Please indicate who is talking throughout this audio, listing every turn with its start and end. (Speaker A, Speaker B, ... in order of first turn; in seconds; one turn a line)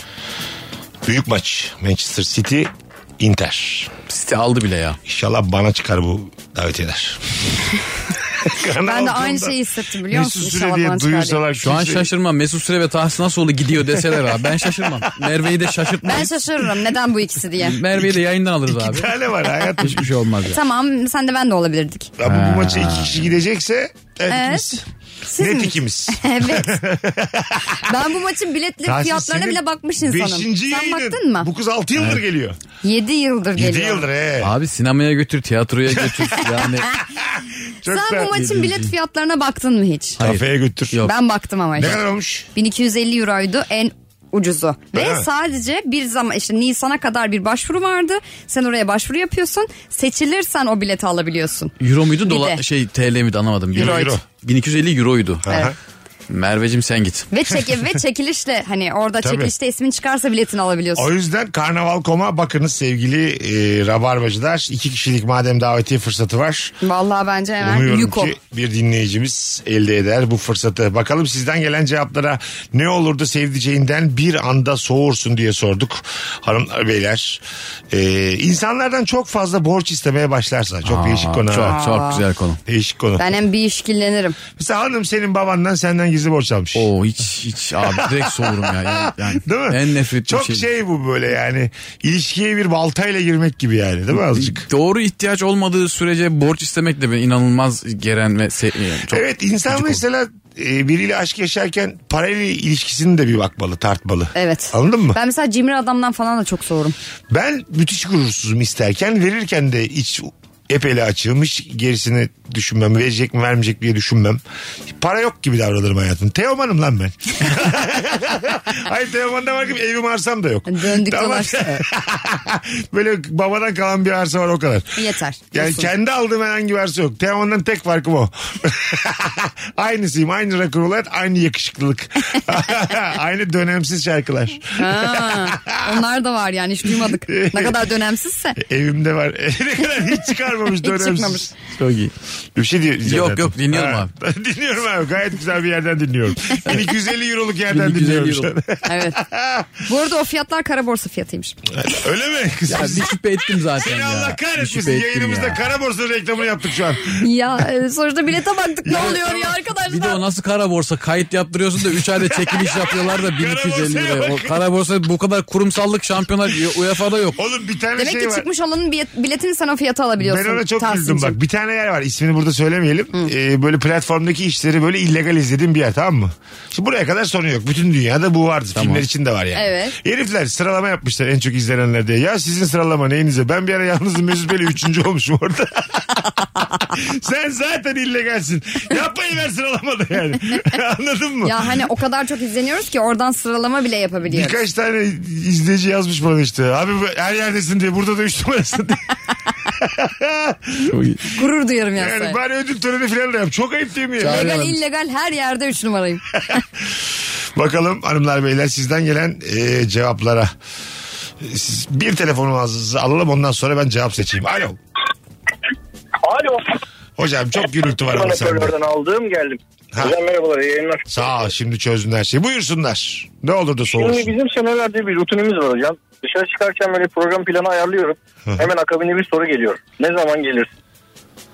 Speaker A: 1.0-3.9
Speaker B: 4.1-5.0
Speaker A: 5.0-7.6
Speaker A: 8.3-9.6
Speaker C: 8.8-11.4
Speaker A: 10.1-12.1
Speaker B: 11.6-16.3
Speaker A: 14.8-15.3
Speaker C: 16.0-17.8
Speaker B: 17.6-19.1
Speaker A: 18.7-20.1
Speaker B: 19.8-20.6
Speaker C: 20.5-22.1
Speaker A: 22.2-24.8
Speaker B: 22.2-23.3
Speaker C: 24.3-26.7
Speaker A: 25.4-27.9
Speaker C: 27.8-31.5
Speaker A: 28.8-32.6
Speaker C: 32.8-34.1
Speaker A: 33.5-34.5
Speaker B: 34.4-36.9
Speaker A: 37.2-38.4
Speaker C: 37.9-40.2
Speaker B: 38.4-38.9
Speaker A: 40.2-41.0
Speaker B: 40.2-41.1
Speaker C: 41.0-42.0
Speaker A: 41.8-42.5
Speaker C: 42.5-51.7
Speaker A: 44.9-45.3
Speaker B: 51.8-55.5
Speaker C: 52.2-52.6
Speaker A: 53.7-54.2
Speaker C: 53.8-54.1
Speaker A: 55.4-55.8
Speaker B: 56.3-57.3
Speaker C: 57.3-61.1
Speaker A: 59.2-59.5
Speaker A: 60.9-66.7
Speaker C: 66.8-68.3
Speaker A: 67.6-81.8
Speaker B: 80.8-82.6
Speaker C: 81.7-82.2
Speaker A: 82.7-83.4
Speaker C: 83.2-84.4
Speaker A: 84.5-86.9
Speaker B: 86.7-90.7
Speaker A: 87.8-94.7
Speaker B: 94.3-100.0
Speaker A: 99.1-105.2
Speaker C: 104.3-106.9
Speaker A: 107.3-136.0
Speaker C: 120.7-121.8
Speaker C: 125.0-125.9
Speaker C: 134.7-138.6
Speaker A: 137.1-137.9
Speaker A: 138.6-141.5
Speaker C: 140.7-141.5
Speaker B: 141.8-142.1
Speaker A: 142.5-149.8
Speaker B: 143.1-144.1
Speaker B: 147.7-148.5
Speaker C: 148.8-149.2
Speaker C: 149.8-151.6
Speaker A: 151.7-153.1
Speaker B: 152.7-155.6
Speaker A: 153.7-157.3
Speaker C: 157.1-160.2
Speaker A: 158.8-159.5
Speaker B: 158.9-167.4
Speaker A: 161.9-164.6
Speaker A: 167.3-168.4
Speaker C: 168.0-171.4
Speaker A: 170.2-191.6
Speaker B: 178.8-179.0
Speaker C: 179.6-179.9
Speaker C: 191.4-194.6
Speaker A: 194.3-199.2
Speaker A: 199.7-201.2
Speaker B: 200.9-201.2
Speaker C: 201.3-202.4
Speaker A: 201.9-204.5
Speaker B: 204.2-204.8
Speaker C: 204.2-206.2
Speaker A: 207.6-210.5
Speaker A: 211.4-214.8
Speaker D: 216.2-216.8
Speaker A: 217.2-218.7
Speaker D: 218.0-221.3
Speaker A: 221.1-224.3
Speaker D: 223.9-230.7